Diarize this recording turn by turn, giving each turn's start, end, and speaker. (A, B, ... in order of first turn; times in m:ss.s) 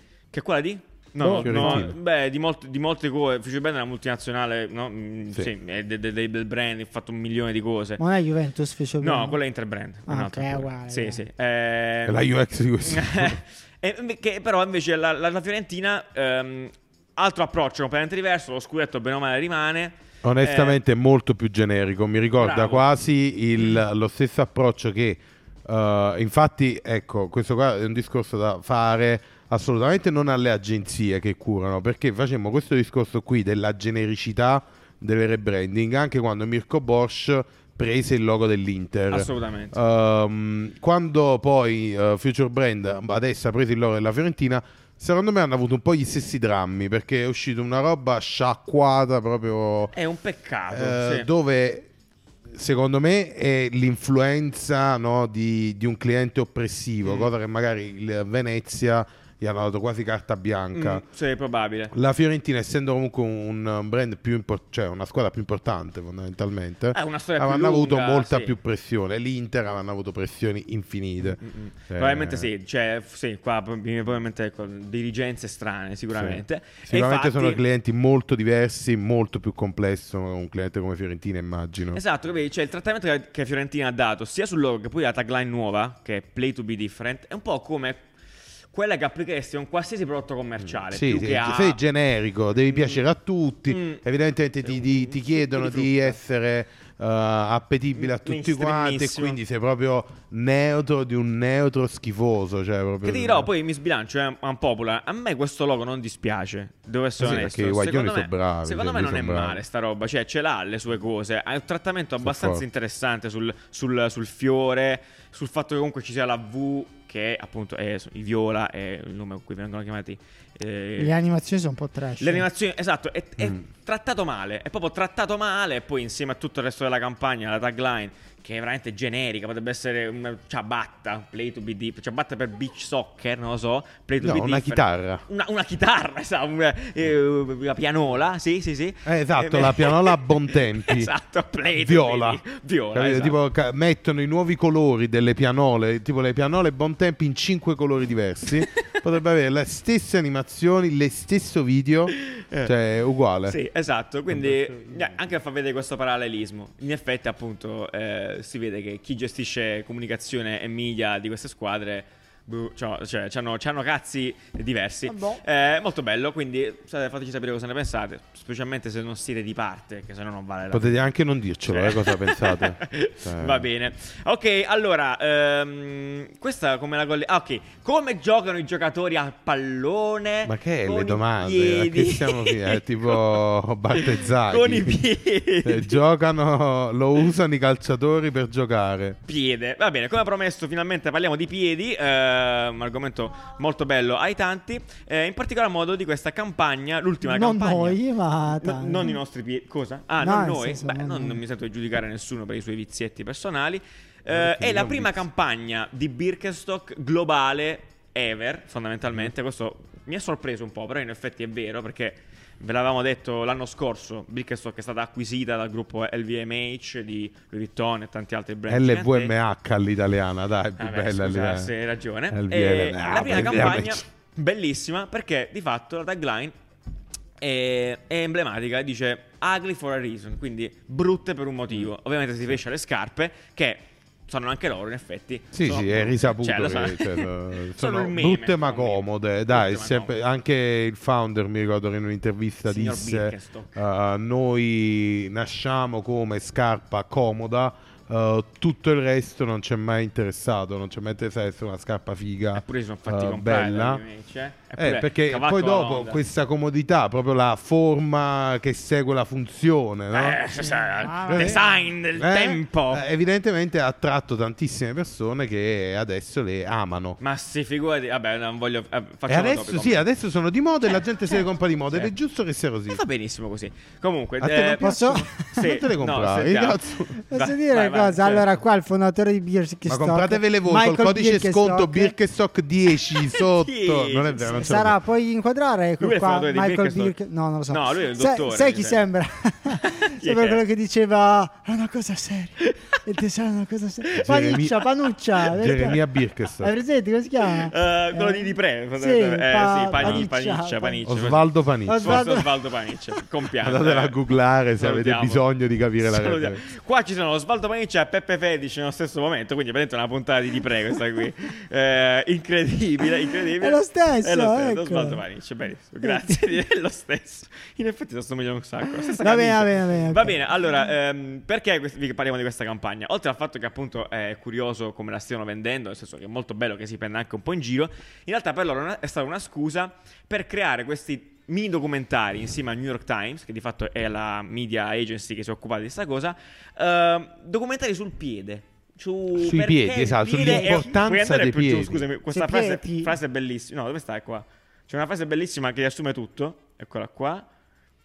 0:00.3-0:08.0 A
0:01.2-0:02.0 B
0:01.2-0:01.8 C
0:08.0-0:09.4 C
0:09.0-0:12.2 A
0:10.1-0:11.2 C
0:12.0-0:13.4 B
0:12.8-0:20.8 A
0:20.2-0:49.9 B
0:22.4-0:22.9 A
0:39.1-0:39.8 A
0:49.9-0:51.3 A
0:50.7-0:51.9 B
0:52.5-1:01.0 B
0:57.0-0:57.3 A
1:00.7-1:01.9 A
1:01.9-1:12.5 B
1:06.9-1:08.5 A
1:11.4-1:17.6 A
1:16.1-1:22.0 B
1:21.9-1:28.0 A
1:28.7-1:31.8 A
1:30.9-1:43.5 B
1:32.7-1:33.0 A
1:33.7-1:34.0 A
1:34.6-1:36.2 A
1:38.0-1:39.4 A
1:43.0-2:01.1 A
1:47.2-1:49.6 B
1:52.2-1:52.6 B
2:01.0-2:02.5 C
2:02.2-2:23.4 A
2:14.2-2:15.2 B
2:19.0-2:21.1 B
2:21.7-2:22.4 B
2:22.9-2:33.6 B
2:32.2-2:32.7 A
2:33.4-2:51.0 A
2:34.3-2:35.2 B
2:45.1-2:45.4 C
2:50.7-2:53.7 B
2:51.6-3:03.4 A
3:00.4-3:05.0 B
3:03.9-3:06.0 A
3:05.6-3:09.2 B
3:09.3-3:18.0 A
3:17.2-3:19.2 C
3:18.5-3:39.3 A
3:20.2-3:21.4 C
3:24.3-3:25.2 B
3:38.7-3:41.7 B
3:40.8-3:46.5 A
3:42.3-3:44.0 B
3:47.4-4:00.1 A
3:55.5-4:14.0 B
4:02.6-4:03.8 A
4:12.5-4:16.2 A
4:14.8-4:20.4 B
4:20.1-4:23.0 A
4:21.0-4:21.8 C
4:21.3-4:21.6 B
4:22.1-4:27.2 B
4:27.2-4:30.0 A
4:29.3-4:33.0 B
4:32.9-4:38.5 A
4:34.4-4:37.2 B
4:34.8-4:35.6 C
4:37.3-4:42.1 C
4:39.9-4:45.0 B
4:43.1-4:44.6 A
4:44.5-4:56.0 C
4:46.0-4:47.1 A
4:47.7-4:49.0 A
4:49.8-4:50.6 A
4:54.2-4:54.8 B
4:55.4-4:56.7 B
4:56.6-5:01.0 C
4:57.5-5:04.2 A
5:00.0-5:00.2 B
5:01.0-5:02.3 B
5:01.8-5:02.7 C
5:03.6-5:06.6 B
5:04.8-5:05.4 A
5:06.0-5:47.5 A
5:13.6-5:15.2 C
5:16.0-5:16.4 C
5:18.9-5:20.4 C
5:39.3-5:42.0 B
5:40.4-5:40.9 C
5:42.3-5:43.1 C